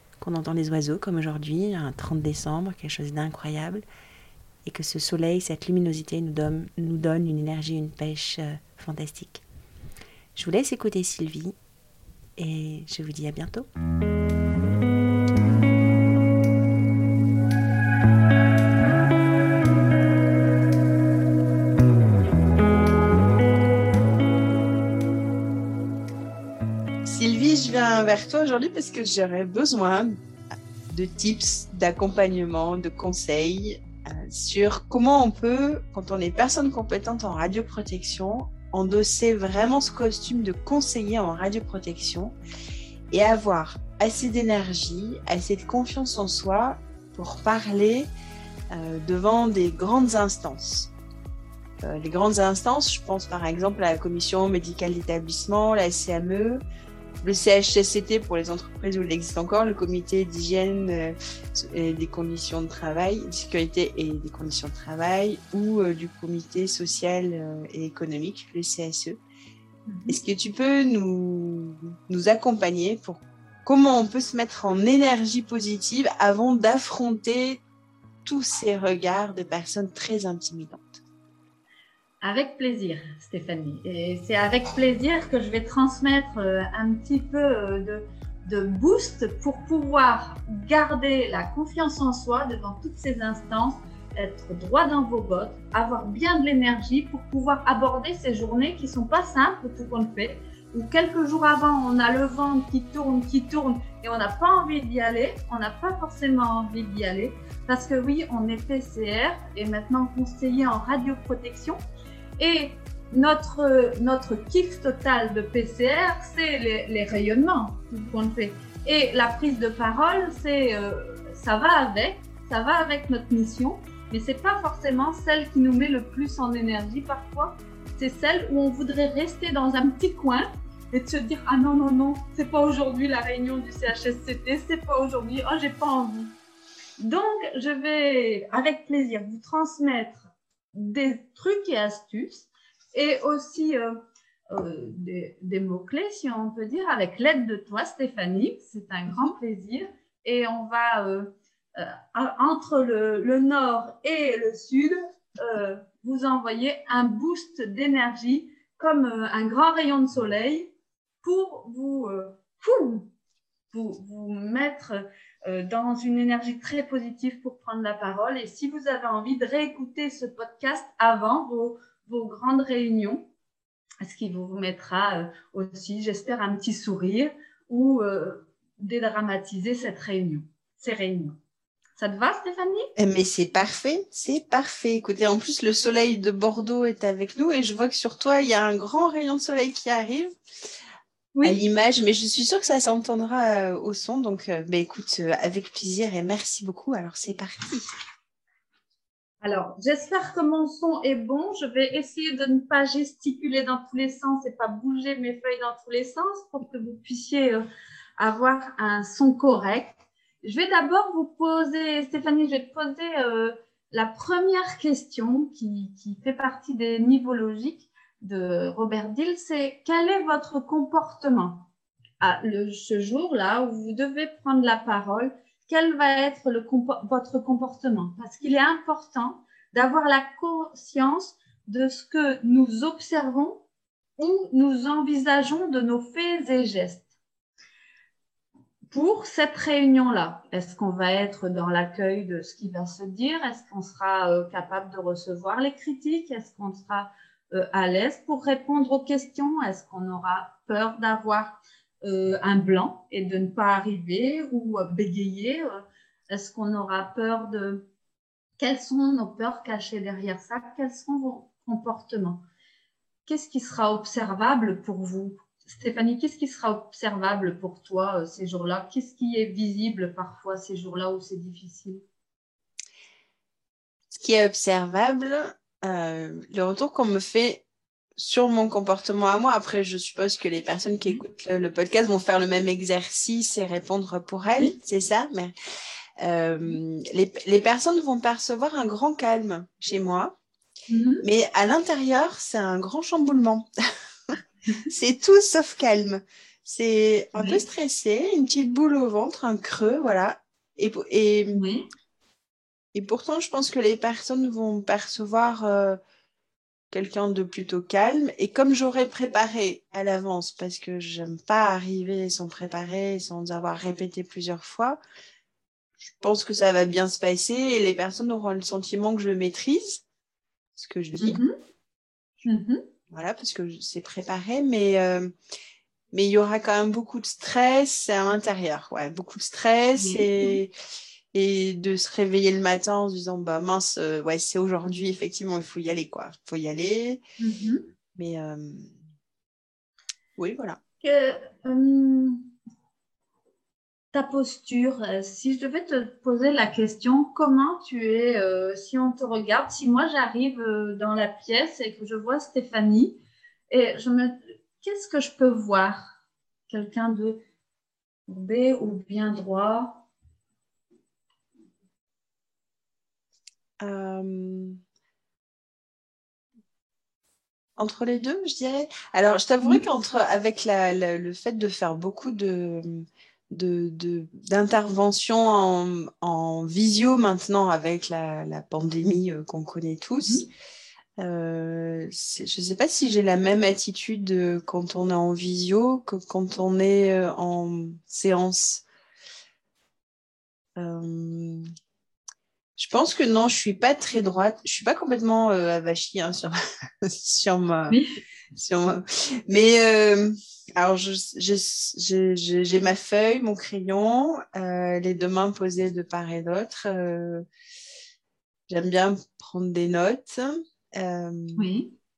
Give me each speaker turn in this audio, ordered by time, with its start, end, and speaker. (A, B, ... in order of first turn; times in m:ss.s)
0:00.2-0:03.8 A
0:04.6-0:09.4 A
0:10.4-0:11.6 A
0:12.4-0:13.7 A
0:27.0-0:30.2 B
0:30.9-0:42.4 B
0:43.1-0:48.1 B
0:48.7-0:50.9 B
0:51.8-0:56.6 B
0:57.2-1:09.2 B
1:09.9-1:10.2 C
1:10.1-1:17.6 B
1:18.2-1:21.0 B
1:22.2-1:51.8 C
1:52.4-2:16.3 C
2:17.0-2:43.1 C
2:43.7-2:53.3 C
2:54.0-3:01.4 C
3:02.0-3:02.9 C
3:03.0-3:10.3 B
3:11.3-3:11.6 C
3:11.4-3:17.9 B
3:19.4-3:27.6 C
3:28.2-3:41.7 C
3:42.2-3:53.6 C
3:54.2-3:57.1 C
3:58.9-4:17.9 C
4:18.6-4:22.4 C
4:23.2-4:32.0 C
4:34.2-4:37.6 B
4:38.2-4:45.5 B
4:46.2-4:50.3 B
4:50.9-4:51.2 C
4:51.2-4:53.7 B
4:54.3-5:01.6 B
4:57.4-4:57.6 C
5:01.5-5:01.9 C
5:02.9-5:06.0 B
5:06.9-5:15.0 B
5:16.0-5:20.0 B
5:20.8-5:21.4 B
5:21.2-5:21.5 C
5:22.4-5:22.8 C
5:23.1-5:25.3 B
5:26.1-5:30.7 B
5:30.0-5:30.6 C
5:31.3-5:37.2 B
5:37.4-5:37.8 C
5:38.1-5:38.9 B
5:40.4-5:40.8 B
5:41.0-5:42.4 C
5:44.1-5:56.2 C
5:56.7-5:57.4 C
5:58.3-6:00.1 C
6:03.8-6:04.8 B
6:07.8-6:20.4 B
6:21.2-6:28.8 B
6:30.8-6:31.6 B
6:32.8-6:38.0 B
6:37.9-6:38.1 C
6:38.5-6:47.4 B
6:48.7-6:51.6 B
6:51.6-6:51.9 C